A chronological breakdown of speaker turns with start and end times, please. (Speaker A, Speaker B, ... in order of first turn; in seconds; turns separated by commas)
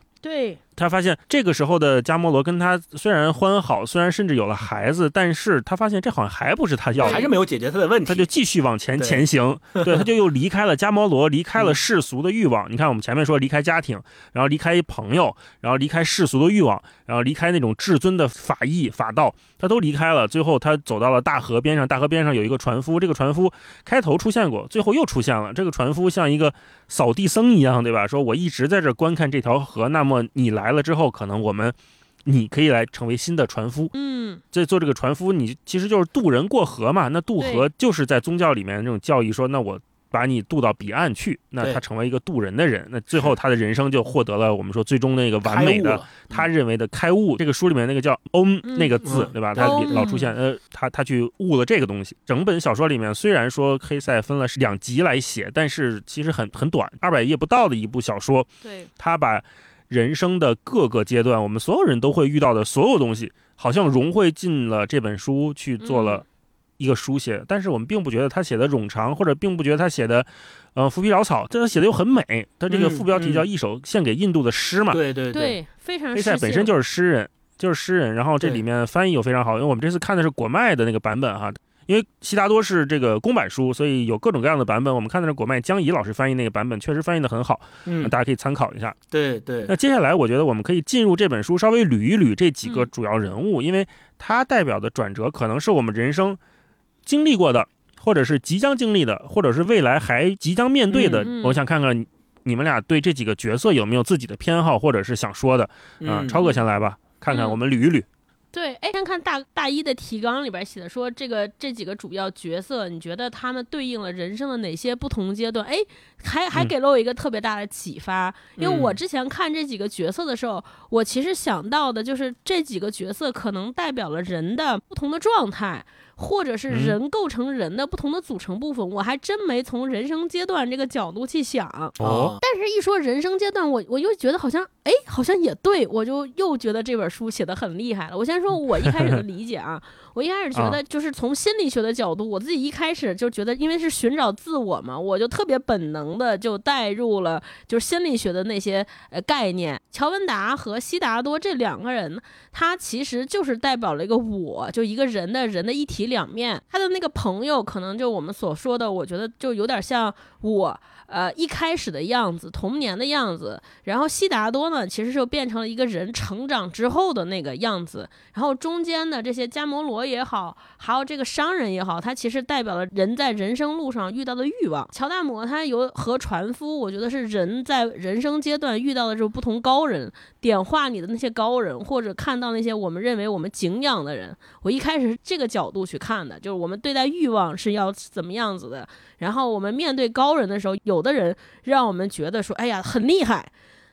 Speaker A: 0.2-0.6, Speaker B: 0.8-7.2, Speaker C: 7.0-8.3, Speaker B: 8.1-33.9, Speaker C: 9.0-9.2, Speaker C: 9.8-10.1, Speaker A: 33.9-34.4, Speaker B: 34.5-66.2, Speaker A: 37.4-37.6, Speaker C: 45.4-46.5, Speaker A: 48.6-49.0, Speaker C: 49.0-50.1, Speaker A: 49.6-50.3, Speaker A: 58.6-58.9, Speaker A: 65.8-66.2, Speaker B: 66.8-75.0, Speaker C: 72.7-73.5, Speaker C: 74.9-75.6, Speaker A: 75.3-76.7, Speaker B: 76.1-89.0, Speaker C: 87.8-88.1, Speaker C: 89.1-89.7, Speaker B: 89.7-96.4, Speaker B: 97.1-108.1, Speaker C: 100.9-101.2, Speaker A: 101.2-101.6, Speaker C: 106.0-106.5, Speaker A: 107.3-107.6, Speaker A: 108.5-193.5, Speaker C: 118.6-119.0, Speaker B: 126.7-127.0, Speaker B: 132.0-132.3, Speaker C: 132.0-132.4